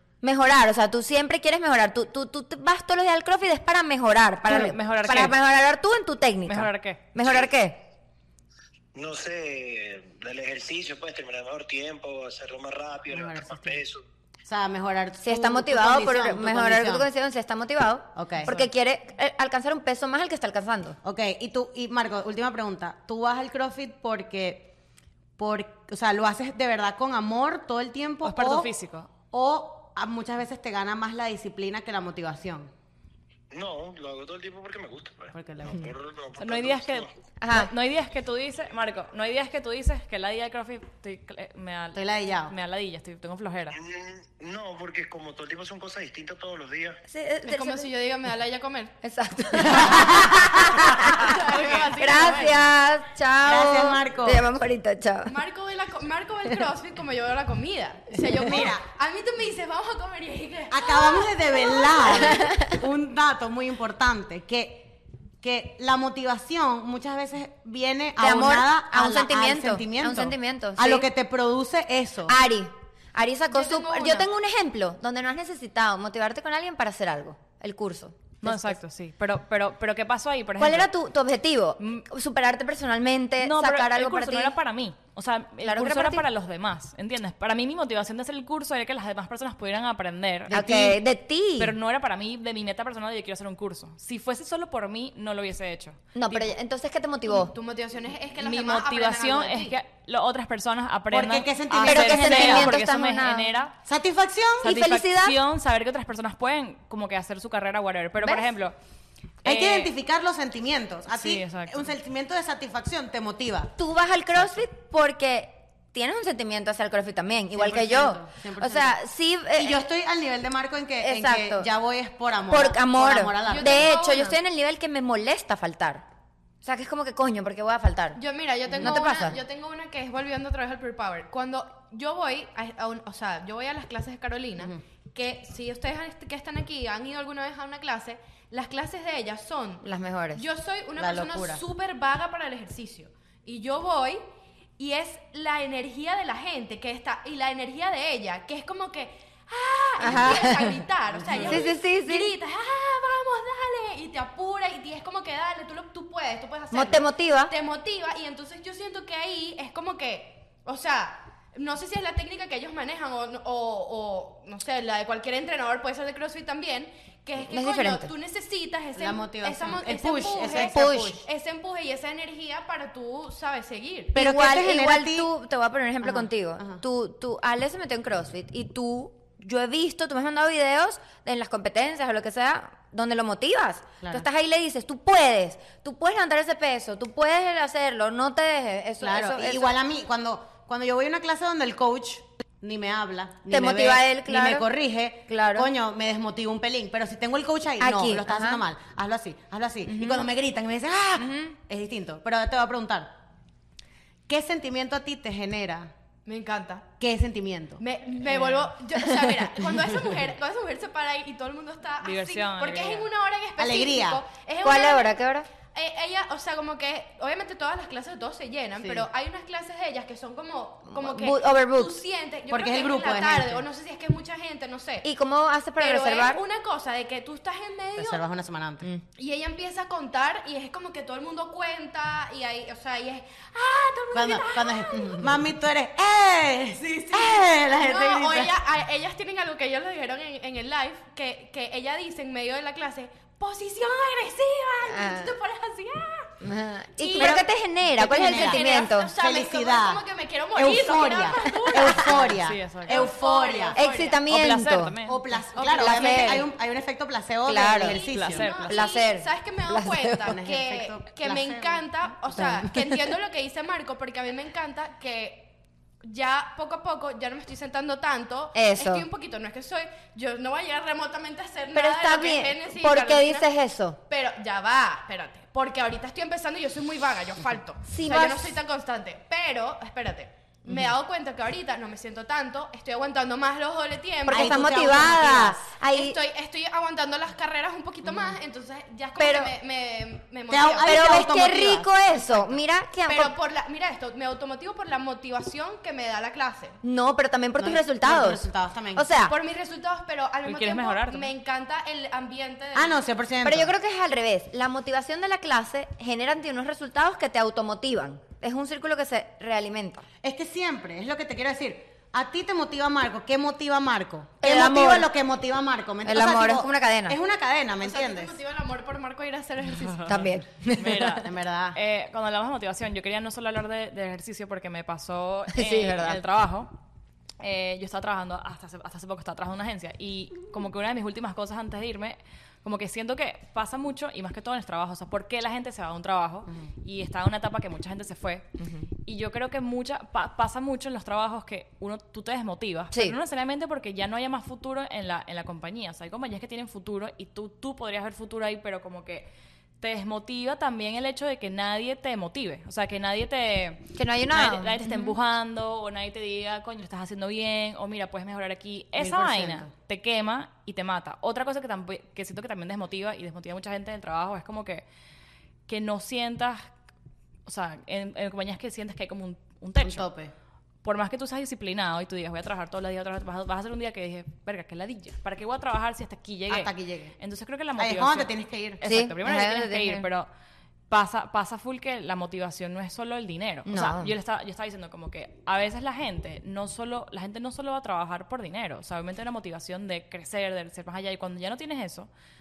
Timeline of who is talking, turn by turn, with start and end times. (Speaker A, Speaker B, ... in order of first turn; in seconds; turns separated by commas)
Speaker A: 0.2-7.8, Speaker B: 4.4-5.4, Speaker B: 6.5-7.0, Speaker C: 8.9-14.0, Speaker D: 13.1-13.8, Speaker D: 14.5-17.1, Speaker A: 15.2-21.0, Speaker D: 18.1-18.6, Speaker D: 21.0-24.7, Speaker D: 25.4-28.7, Speaker B: 28.2-29.1, Speaker D: 29.3-32.7, Speaker C: 33.5-37.1, Speaker D: 35.3-35.9, Speaker B: 36.4-43.8, Speaker A: 37.4-37.7, Speaker D: 41.9-42.5, Speaker C: 43.7-47.0, Speaker A: 47.1-47.9, Speaker E: 47.5-48.9, Speaker A: 49.0-55.4, Speaker D: 49.8-51.1, Speaker E: 51.1-52.7, Speaker D: 53.4-54.5, Speaker E: 55.2-62.5, Speaker D: 58.2-58.9, Speaker D: 60.7-72.4, Speaker A: 62.4-62.8, Speaker A: 68.2-71.1, Speaker A: 72.3-78.8, Speaker E: 73.5-74.3, Speaker B: 78.4-80.9, Speaker A: 80.6-84.6, Speaker B: 83.4-91.0, Speaker A: 85.6-86.2, Speaker A: 90.5-91.7, Speaker B: 91.6-96.5, Speaker A: 96.1-97.5, Speaker E: 97.3-99.7, Speaker B: 98.4-103.7, Speaker D: 101.1-102.8, Speaker A: 101.8-103.6, Speaker D: 103.8-104.8, Speaker A: 104.6-105.4, Speaker B: 104.6-108.7, Speaker A: 108.2-108.5, Speaker B: 109.4-109.9, Speaker D: 109.4-113.7, Speaker B: 111.1-111.9, Speaker A: 113.8-119.8, Speaker D: 117.5-119.0, Speaker D: 119.6-123.9, Speaker A: 121.0-121.7, Speaker A: 122.5-126.0, Speaker E: 123.4-124.4, Speaker A: 126.6-128.2, Speaker E: 128.2-139.8, Speaker D: 128.7-129.2, Speaker A: 128.7-129.4, Speaker A: 139.8-140.4, Speaker E: 140.3-144.2, Speaker D: 141.0-141.6, Speaker E: 144.8-174.1, Speaker A: 150.0-150.8, Speaker D: 150.1-150.4, Speaker D: 151.1-151.6, Speaker A: 151.4-152.3, Speaker A: 156.7-157.5, Speaker A: 167.4-168.1, Speaker D: 168.9-171.2, Speaker A: 170.5-171.2, Speaker D: 174.1-175.3, Speaker A: 174.1-189.7, Speaker D: 176.0-176.8, Speaker D: 189.0-203.2, Speaker A: 193.5-194.7, Speaker A: 195.3-195.7, Speaker A: 197.8-198.6, Speaker A: 199.9-200.2, Speaker A: 201.2-201.6, Speaker D: 204.3-205.9, Speaker E: 206.2-206.9, Speaker D: 207.0-208.5, Speaker E: 207.8-215.2, Speaker B: 212.0-213.1, Speaker D: 213.6-214.2, Speaker A: 214.6-215.5, Speaker E: 215.7-225.1, Speaker D: 218.8-219.1, Speaker A: 220.9-222.0, Speaker D: 222.5-223.7, Speaker A: 225.0-226.4, Speaker E: 225.8-228.2, Speaker D: 228.0-228.9, Speaker E: 229.2-235.2, Speaker D: 234.1-238.6, Speaker E: 236.8-246.3, Speaker A: 244.9-245.4, Speaker A: 246.4-249.1, Speaker E: 247.0-247.4, Speaker D: 247.2-253.8, Speaker E: 248.0-254.2, Speaker A: 251.7-252.2, Speaker B: 252.4-253.1, Speaker A: 253.7-254.9, Speaker B: 254.3-255.4, Speaker D: 255.0-258.5, Speaker E: 255.6-256.4, Speaker A: 255.7-256.5, Speaker A: 257.4-258.0, Speaker E: 257.8-273.5, Speaker B: 258.1-258.8, Speaker A: 258.6-260.3, Speaker D: 260.2-261.9, Speaker A: 262.4-262.9, Speaker A: 268.5-269.1, Speaker A: 271.7-274.0, Speaker E: 274.1-284.9, Speaker A: 277.9-278.6, Speaker A: 284.2-286.2, Speaker D: 284.3-285.6, Speaker E: 285.9-291.0, Speaker D: 288.1-288.4, Speaker A: 289.2-289.5, Speaker D: 290.5-292.6, Speaker A: 290.8-293.3, Speaker E: 293.1-296.8, Speaker A: 296.8-299.4, Speaker D: 297.6-299.1, Speaker E: 299.3-303.0, Speaker B: 300.4-301.3, Speaker D: 302.7-303.7, Speaker A: 303.4-310.1, Speaker D: 310.2-318.4, Speaker A: 314.4-315.1, Speaker A: 316.1-317.2, Speaker E: 317.8-320.2, Speaker B: 319.9-326.8, Speaker A: 320.1-321.2, Speaker D: 321.2-321.8, Speaker A: 325.5-326.2, Speaker B: 327.4-338.5, Speaker A: 338.6-338.9, Speaker B: 339.0-349.3, Speaker A: 342.9-343.2, Speaker B: 349.8-364.9, Speaker A: 353.9-355.1, Speaker D: 359.0-359.7, Speaker B: 365.7-366.7, Speaker B: 367.4-370.1, Speaker D: 369.8-370.3, Speaker B: 370.8-380.3, Speaker D: 376.5-377.1, Speaker D: 377.8-378.8, Speaker A: 378.8-380.1, Speaker B: 380.9-392.1, Speaker A: 383.7-384.1